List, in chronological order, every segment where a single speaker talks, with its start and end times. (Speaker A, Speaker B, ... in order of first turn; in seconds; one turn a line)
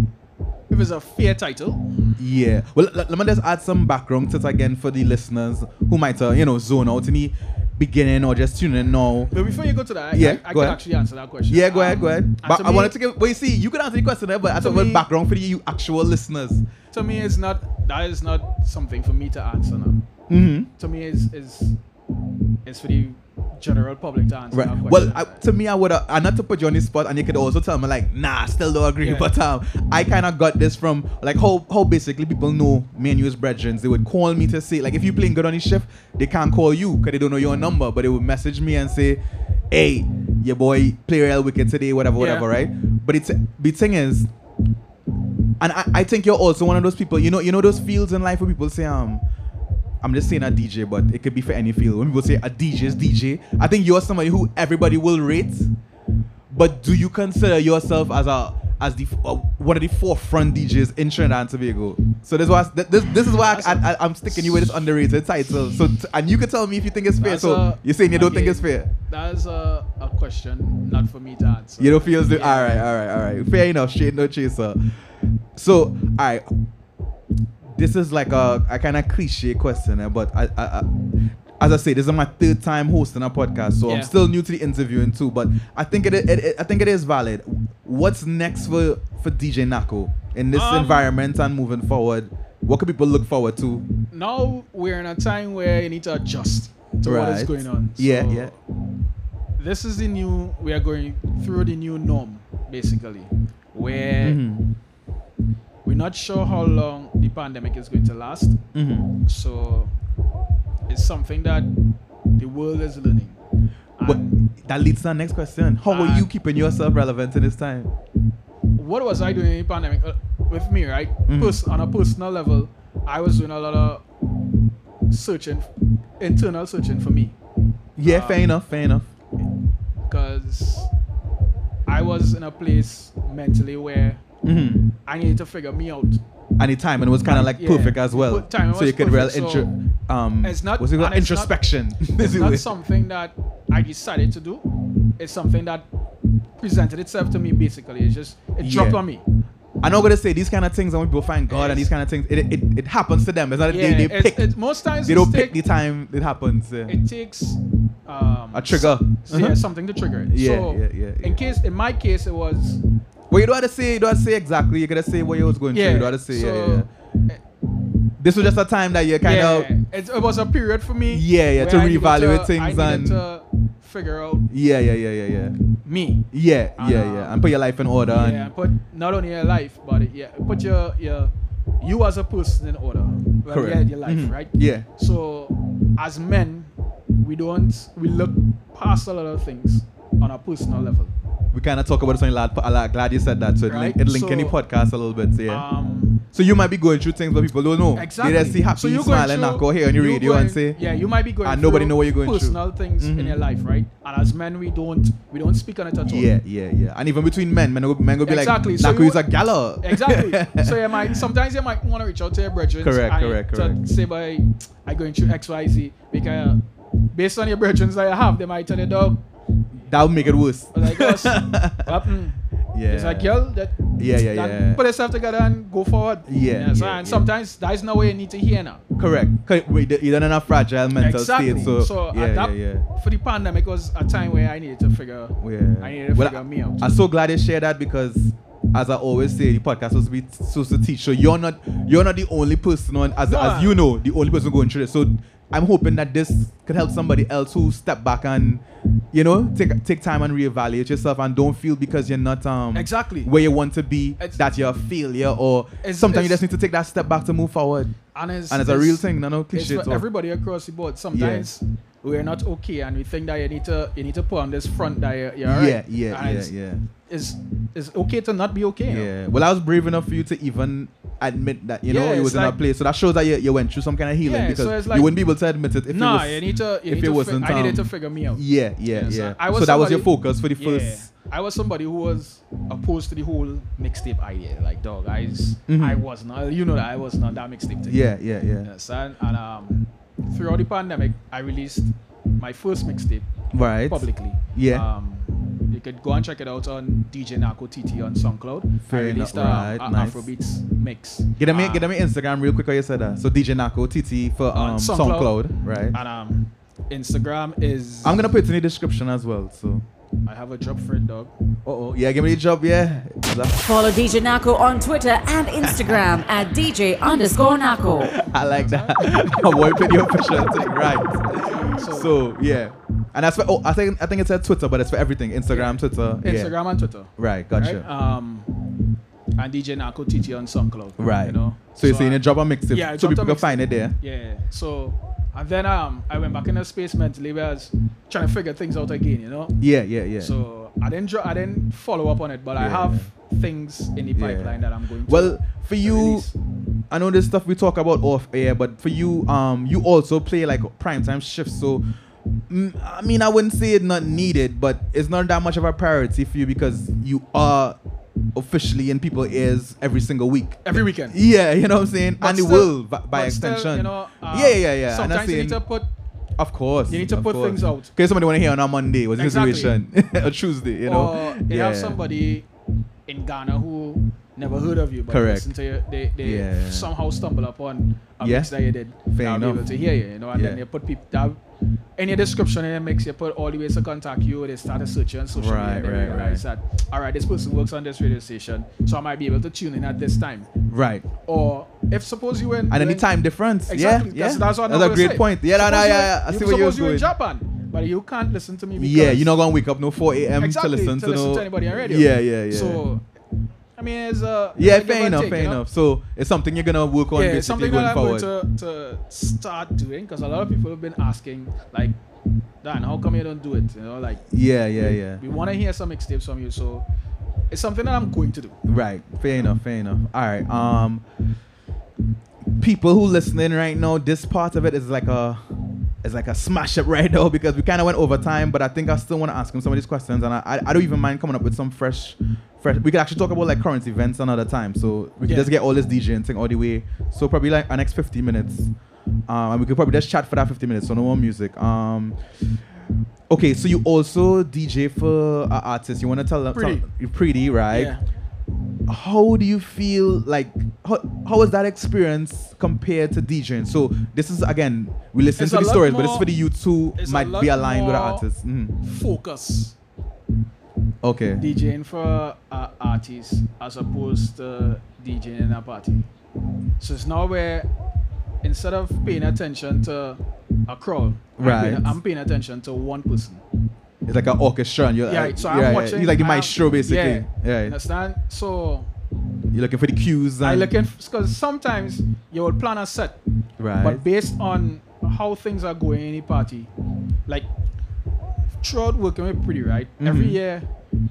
Speaker A: 0.7-2.1
Speaker B: 2.2-9.3
Speaker A: 9.3-12.9
Speaker B: 10.1-10.8
Speaker B: 11.5-16.6
Speaker A: 14.6-15.0
Speaker A: 16.9-20.0
Speaker B: 20.3-20.7
Speaker A: 20.8-21.8
Speaker A: 22.6-25.4
Speaker B: 24.5-44.3
Speaker A: 29.0-29.3
Speaker A: 42.2-42.5
Speaker B: 45.6-49.2
Speaker B: 50.0-55.7
Speaker B: 56.5-68.9
Speaker A: 63.4-64.7
Speaker A: 67.2-72.9
Speaker B: 71.8-74.8
Speaker B: 75.5-76.4
Speaker B: 77.7-80.9
Speaker B: 81.6-93.8
Speaker A: 90.5-91.1
Speaker A: 94.1-98.6
Speaker B: 97.0-98.5
Speaker A: 99.6-104.4
Speaker B: 104.2-104.7
Speaker A: 105.8-108.6
Speaker B: 108.7-109.1
Speaker A: 109.2-109.9
Speaker A: 110.9-111.7
Speaker A: 112.4-113.4
Speaker A: 114.0-114.3
Speaker B: 114.0-117.9
Speaker A: 115.9-116.3
Speaker A: 118.8-124.0
Speaker B: 121.3-121.6
Speaker A: 125.1-125.7
Speaker A: 126.2-127.3
Speaker B: 128.0-129.1
Speaker A: 128.0-128.5
Speaker A: 130.1-130.9
Speaker A: 131.9-134.2
Speaker B: 134.4-134.9
Speaker A: 135.1-136.2
Speaker B: 136.6-142.7
Speaker A: 137.2-139.7
Speaker A: 140.4-141.6
Speaker A: 142.1-144.7
Speaker A: 145.2-145.8
Speaker A: 146.6-149.2
Speaker B: 148.6-149.0
Speaker B: 149.8-154.5
Speaker A: 151.5-151.9
Speaker A: 153.7-155.5
Speaker B: 155.0-157.0
Speaker A: 156.9-162.8
Speaker B: 158.5-159.6
Speaker B: 160.3-161.4
Speaker B: 163.3-166.9
Speaker A: 165.7-167.4
Speaker B: 168.2-169.7
Speaker A: 169.2-174.4
Speaker B: 171.1-173.2
Speaker B: 174.5-175.5
Speaker A: 175.8-176.2
Speaker B: 176.3-178.5
Speaker A: 176.8-177.4
Speaker A: 178.1-191.1
Speaker B: 183.5-184.9
Speaker B: 191.5-195.6
Speaker A: 193.7-194.5
Speaker A: 195.5-196.2
Speaker B: 196.3-200.8
Speaker A: 197.9-206.3
Speaker B: 201.4-203.4
Speaker B: 206.0-211.2
Speaker A: 208.2-209.2
Speaker A: 209.8-216.6
Speaker B: 212.8-213.8
Speaker A: 217.1-219.2
Speaker B: 219.8-221.9
Speaker A: 220.7-228.8
Speaker B: 222.7-223.3
Speaker B: 224.0-224.8
Speaker B: 226.3-227.2
Speaker B: 228.9-232.8
Speaker A: 231.0-236.9
Speaker B: 235.4-257.9
Speaker A: 243.2-243.8
Speaker A: 252.7-253.3
Speaker A: 255.8-256.4
Speaker A: 258.1-266.5
Speaker B: 258.5-260.0
Speaker B: 261.1-261.5
Speaker B: 265.4-266.8
Speaker A: 267.1-269.1
Speaker B: 268.9-281.1
Speaker A: 271.9-272.6
Speaker A: 274.2-275.1
Speaker A: 275.9-288.0
Speaker B: 285.7-286.0
Speaker B: 287.9-288.7
Speaker A: 288.6-293.3
Speaker B: 293.5-294.9
Speaker A: 293.9-301.9
Speaker B: 298.9-300.3
Speaker B: 301.4-305.9
Speaker A: 304.5-305.4
Speaker A: 305.9-308.2
Speaker B: 308.0-309.8
Speaker A: 310.2-311.3
Speaker B: 311.6-313.6
Speaker C: 313.6-318.1
Speaker B: 315.6-316.1
Speaker B: 318.0-326.5
Speaker A: 318.5-320.7
Speaker A: 321.4-322.1
Speaker A: 325.5-328.5
Speaker B: 327.2-327.9
Speaker A: 329.4-339.6
Speaker B: 331.0-333.9
Speaker B: 339.6-340.3
Speaker A: 340.2-346.3
Speaker B: 342.6-343.1
Speaker B: 344.1-346.3
Speaker B: 346.9-351.8
Speaker B: 352.5-357.8
Speaker B: 358.3-365.6
Speaker A: 360.6-361.2
Speaker A: 362.2-365.9
Speaker B: 366.4-372.0
Speaker A: 366.9-367.9
Speaker A: 369.2-369.7
Speaker A: 370.8-372.5
Speaker A: 373.1-381.4
Speaker B: 375.1-375.5
Speaker B: 376.2-376.9
Speaker B: 378.2-378.5
Speaker B: 379.1-379.6
Speaker B: 380.3-380.6
Speaker A: 382.0-390.5
Speaker B: 385.3-386.4
Speaker B: 390.7-391.1
Speaker A: 391.2-393.1
Speaker B: 392.7-397.1
Speaker A: 393.7-399.3
Speaker B: 398.8-402.8
Speaker A: 400.4-403.0
Speaker A: 403.8-405.6
Speaker B: 404.6-408.3
Speaker A: 407.1-411.9
Speaker A: 412.6-416.9
Speaker B: 414.3-415.2
Speaker A: 417.5-418.6
Speaker B: 418.6-421.0
Speaker B: 422.6-425.4
Speaker B: 426.0-438.7
Speaker A: 435.2-435.5
Speaker B: 439.3-442.2
Speaker B: 443.3-447.9
Speaker A: 446.5-446.8
Speaker A: 447.7-448.0
Speaker B: 448.9-458.8
Speaker A: 455.4-456.3
Speaker A: 457.0-458.2
Speaker A: 458.8-459.7
Speaker B: 461.0-461.4
Speaker A: 461.4-466.0
Speaker A: 466.8-467.7
Speaker A: 468.4-473.4
Speaker B: 471.4-472.0
Speaker B: 474.1-477.7
Speaker A: 475.1-478.9
Speaker B: 479.5-480.7
Speaker A: 480.4-483.2
Speaker B: 483.6-484.0
Speaker A: 483.8-486.7
Speaker A: 488.6-490.6
Speaker B: 490.0-490.4